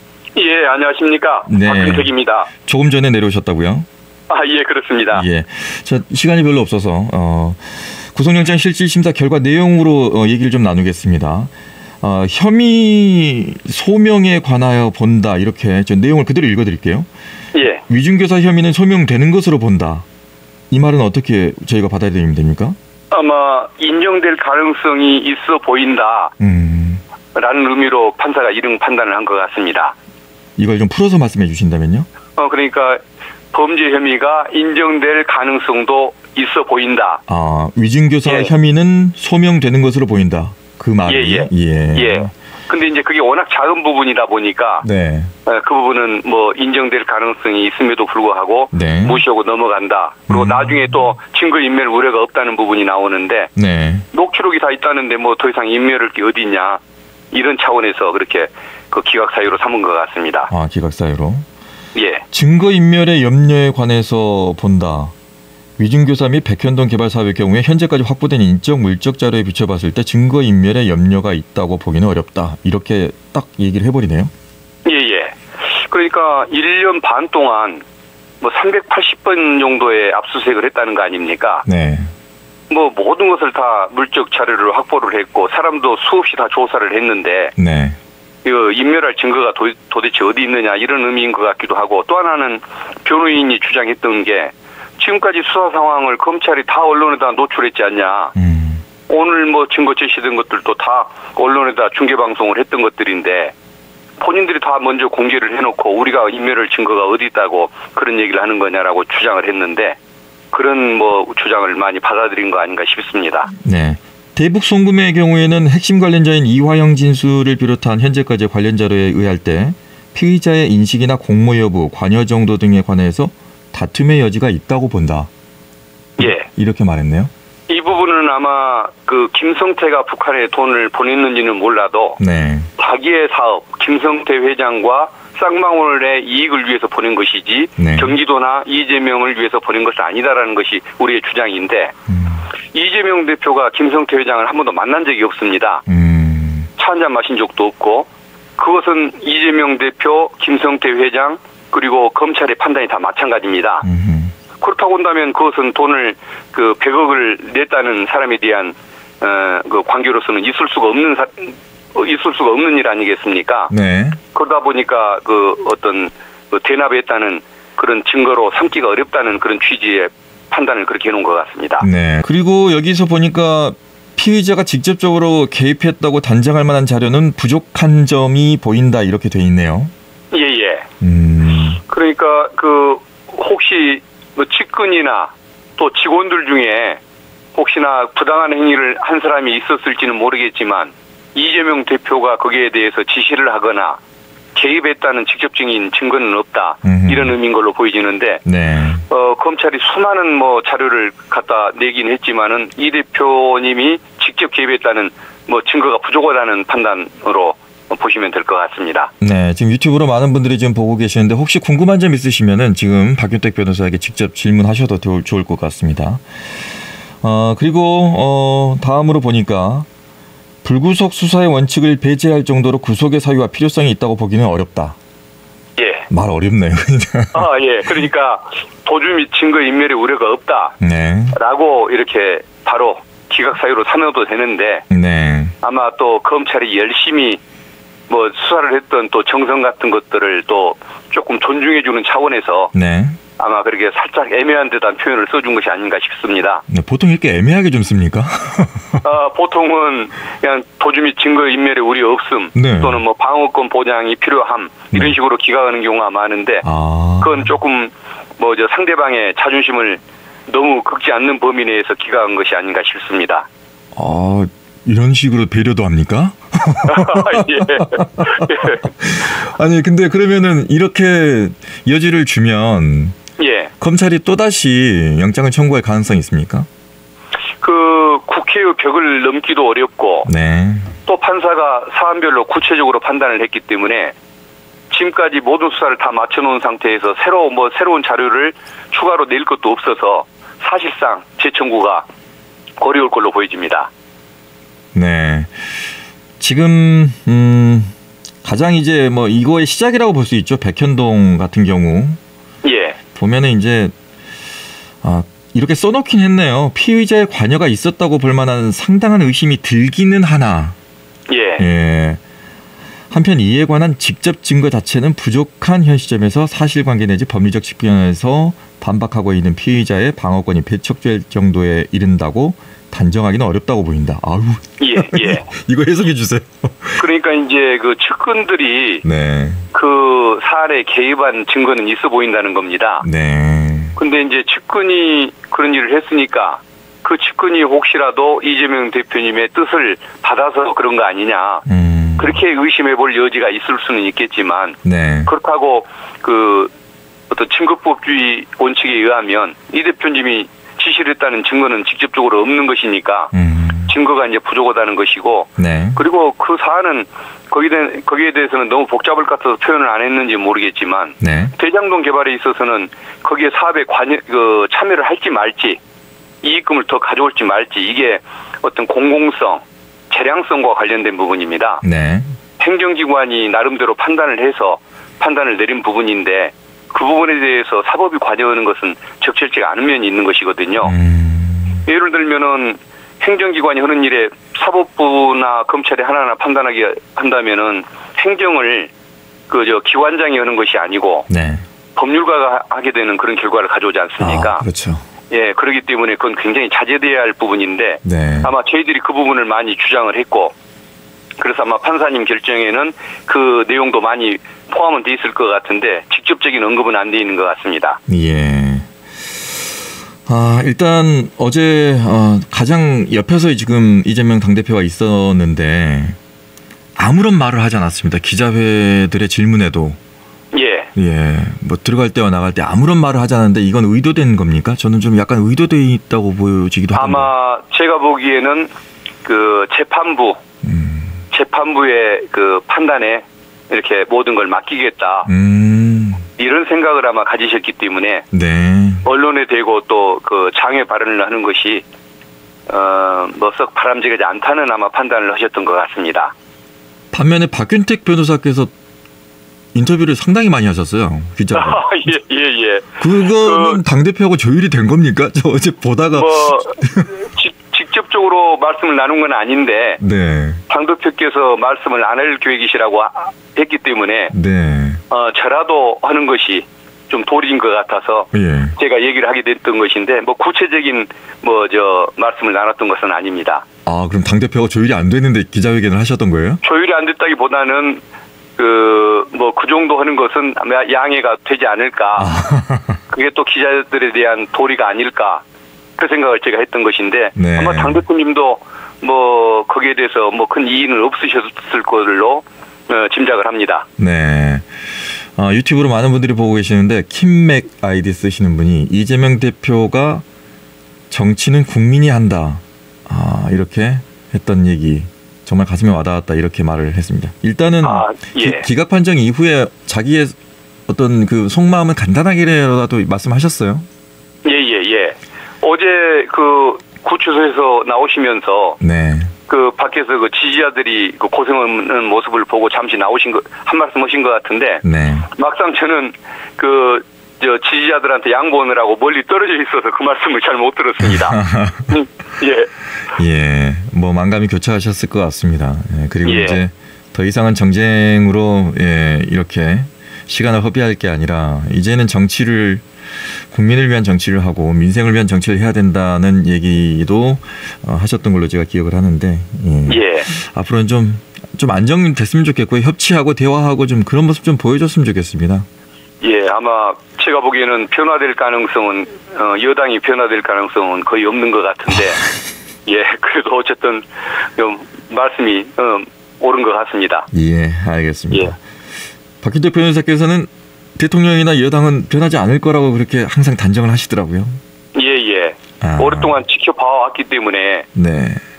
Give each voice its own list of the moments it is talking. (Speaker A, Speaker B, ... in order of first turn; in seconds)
Speaker A: 0.3-2.5, 4.3-5.2, 17.5-17.8, 23.1-26.3, 27.3-29.9, 32.4-33.0, 33.5-37.2, 38.2-38.5, 41.1-44.8, 45.5-53.5, 54.1-56.8, 57.3-60.5, 61.9-62.2, 74.8-77.8, 78.4-81.6, 82.7-87.5, 88.4-98.3, 99.1-103.5, 104.2-110.0, 110.5-113.5, 126.2-126.5, 127.7-132.2, 132.8-141.9, 142.7-145.8, 146.8-153.8, 154.6-163.7, 164.3-171.9, 180.3-180.8, 181.9-187.0, 187.5-194.0, 194.5-198.4, 199.1-209.1, 225.8-226.1, 227.3-230.8, 231.3-234.8, 235.6-237.4, 238.1-242.7, 243.4-246.6, 249.0-256.6, 257.2-263.5, 266.8-268.8, 273.4-273.7, 277.6-280.3, 281.1-284.1, 284.9-292.1, 292.8-293.9, 302.6-303.0, 311.3-311.6, 324.8-325.5, 327.0-329.0, 329.7-333.0, 334.0-341.6, 342.2-346.7, 347.3-353.3, 353.9-365.8, 366.4-371.8, 372.6-380.9, 381.9-388.9, 389.5-391.3, 391.9-394.6, 395.3-400.5, 401.4-408.0, 420.5-420.9, 426.9-428.7, 429.2-430.4, 431.3-435.3, 436.4-438.2, 439.0-441.8, 442.7-446.3, 451.5-453.8, 456.1-460.0, 460.7-464.3, 465.1-473.6, 476.6-478.0, 478.6-482.4, 483.1-485.4, 486.0-493.9, 507.8-508.6, 514.4-518.8, 519.5-532.7, 536.2-536.6, 549.9-550.3, 556.2-562.2, 562.9-567.3, 574.9-577.9
Speaker B: 1.5-2.1, 2.6-3.9, 5.1-17.1, 17.8-20.0, 20.7-22.8, 26.4-27.0, 30.6-32.1, 37.3-42.3, 44.8-45.3, 48.7-49.2, 50.3-51.1, 53.5-54.0, 60.5-61.5, 62.3-65.1, 65.8-74.3, 81.6-82.1, 87.6-88.0, 98.3-98.8, 113.5-125.3, 126.2-127.3, 132.2-132.7, 137.8-138.1, 142.1-142.5, 145.9-146.7, 153.8-154.3, 163.7-164.2, 171.8-179.9, 181.0-181.8, 196.8-197.3, 198.4-199.0, 209.2-216.2, 217.2-219.9, 220.6-225.0, 226.1-227.5, 230.8-231.3, 234.9-235.5, 242.7-243.2, 246.7-249.0, 252.5-253.0, 256.6-257.5, 263.9-273.2, 273.8-276.7, 280.2-280.9, 294.9-295.9, 296.4-302.2, 303.1-303.9, 305.0-310.8, 311.6-312.2, 313.1-327.1, 329.0-329.6, 333.0-334.0, 341.6-342.4, 344.8-345.3, 353.3-353.9, 355.6-356.0, 361.2-361.5, 371.8-372.3, 380.8-381.8, 391.3-391.6, 394.2-395.0, 398.0-398.5, 408.1-408.9, 410.2-416.2, 416.9-420.0, 420.9-427.3, 430.6-431.2, 435.2-436.2, 438.3-439.0, 447.1-448.7, 449.7-452.1, 453.0-457.1, 460.0-460.6, 464.3-465.0, 468.3-468.7, 473.9-476.6, 482.2-483.0, 487.4-488.0, 494.0-494.8, 495.3-500.2, 501.1-510.3, 510.9-513.9, 518.8-519.3, 524.8-525.3, 531.0-531.9, 533.1-542.9, 543.5-555.7, 567.3-568.6, 569.4-574.6, 575.8-576.4, 577.9-578.4